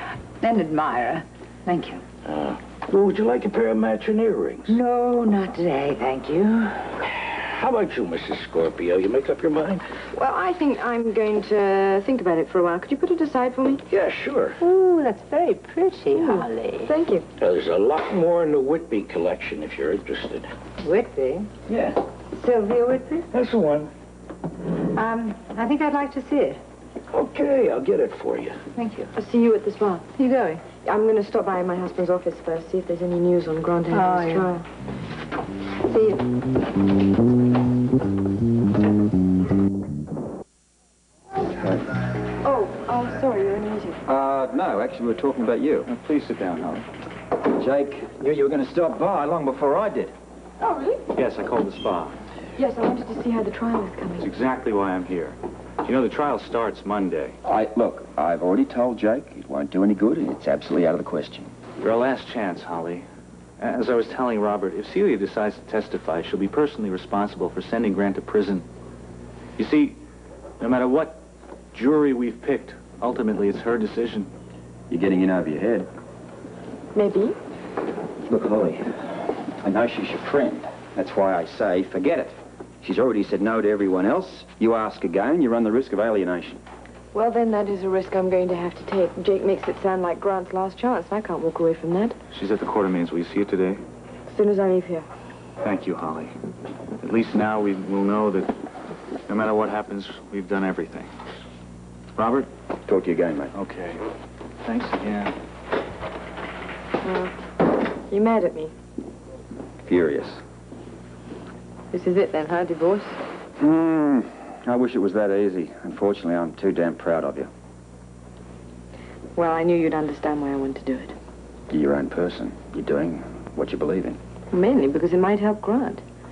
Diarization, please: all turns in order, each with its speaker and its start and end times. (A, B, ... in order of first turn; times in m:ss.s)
0:00.4-0:02.0 A
0:02.2-0:04.8 B
0:04.7-0:06.9 A
0:07.2-0:09.8 B
0:10.1-0:13.8 C
0:13.9-0:14.6 B
0:14.6-0:16.9 A
0:16.1-0:17.2 C
0:17.4-0:20.5 B
0:20.8-0:21.5 A
0:21.7-0:22.0 B
0:22.3-0:23.2 A
0:23.3-0:23.9 B
0:24.9-0:26.6 A
0:27.1-0:28.5 B
0:28.8-0:29.1 A
0:29.1-0:30.0 C
0:30.2-0:30.6 A
0:30.7-0:34.6 C
0:33.9-0:34.5 A
0:35.9-0:36.2 A
0:42.4-0:44.0 C
0:44.0-0:45.9 D
0:45.8-0:46.8 E
0:47.5-0:50.1 D
0:50.6-0:51.0 C
0:51.1-0:52.2 E
0:52.6-0:54.3 C
0:54.2-0:57.4 E
0:57.4-1:01.5 D
1:01.8-1:03.0 E
1:03.6-1:08.6 E
1:09.6-1:10.0 E
1:10.6-1:11.2 E
1:11.7-1:14.3 E
1:14.9-1:15.9 D
1:16.9-1:17.4 C
1:18.2-1:18.8 D
1:19.6-1:26.6 D
1:27.1-1:32.2 C
1:32.3-1:33.8 E
1:34.3-1:35.0 C
1:35.6-1:36.3 E
1:37.0-1:38.5 E
1:39.3-1:41.1 E
1:42.2-1:42.5 E
1:42.8-1:43.5 D
1:43.5-1:44.0 E
1:44.6-1:45.3 E
1:47.0-1:47.3 C
1:48.1-1:48.7 C
1:49.8-1:50.4 D
1:51.9-1:53.2 C
1:53.6-1:57.5 D
1:59.4-2:01.1 C
2:01.7-2:04.2 D
2:04.5-2:06.0 C